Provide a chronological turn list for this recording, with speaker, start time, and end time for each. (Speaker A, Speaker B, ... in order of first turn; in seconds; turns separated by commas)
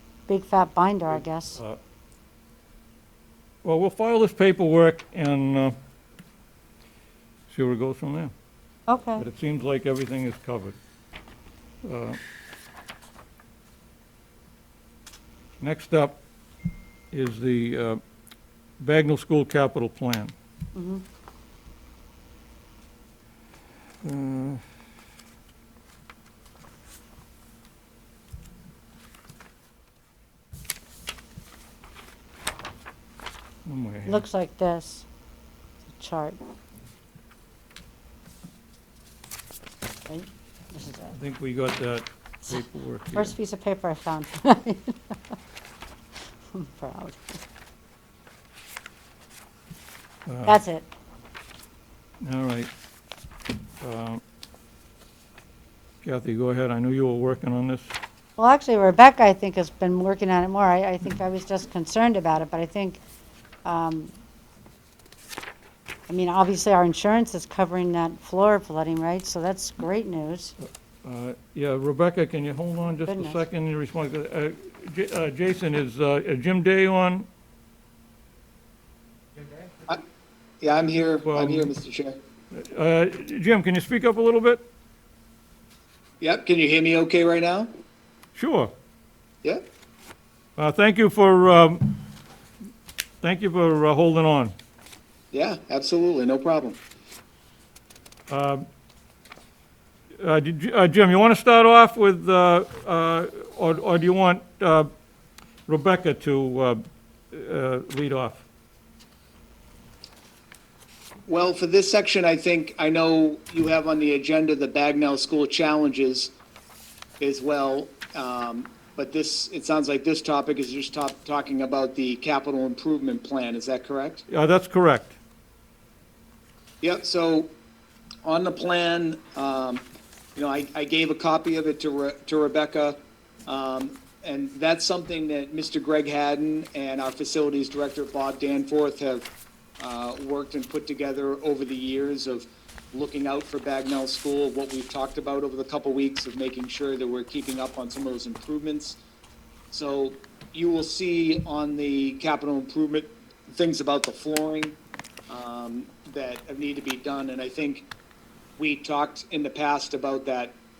Speaker A: 0.3-1.6, Speaker B: 1.1-1.8, Speaker B: 3.6-5.7, Speaker B: 7.5-8.3, Speaker A: 8.9-9.2, Speaker B: 9.2-10.8, Speaker B: 11.8-12.2, Speaker B: 15.6-16.2, Speaker B: 17.1-18.0, Speaker B: 18.8-20.3, Speaker A: 20.7-21.0, Speaker B: 24.0-24.6, Speaker B: 33.6-34.2, Speaker A: 34.1-35.0, Speaker A: 36.0-36.4, Speaker A: 40.1-41.1, Speaker B: 41.1-43.3, Speaker A: 43.1-45.1, Speaker A: 46.5-47.4, Speaker B: 50.2-50.6, Speaker A: 50.5-50.9, Speaker B: 52.2-52.7, Speaker B: 53.8-54.2, Speaker B: 56.0-57.9, Speaker A: 58.4-63.0, Speaker A: 63.6-64.1, Speaker A: 66.1-70.5, Speaker B: 71.0-77.2, Speaker A: 73.0-73.4, Speaker C: 80.6-82.1, Speaker B: 81.2-81.7, Speaker B: 82.5-84.6, Speaker C: 86.2-87.7, Speaker B: 88.3-88.7, Speaker B: 90.6-92.0, Speaker B: 93.2-94.5, Speaker C: 95.3-96.8, Speaker B: 98.3-98.6, Speaker B: 100.2-104.9, Speaker B: 105.7-108.4, Speaker C: 111.3-116.3, Speaker C: 117.2-124.2, Speaker B: 124.3-125.2, Speaker C: 126.8-127.5, Speaker C: 128.2-129.8, Speaker C: 130.3-139.2, Speaker C: 139.8-149.0, Speaker C: 149.7-154.8, Speaker C: 155.3-157.9, Speaker C: 158.6-160.6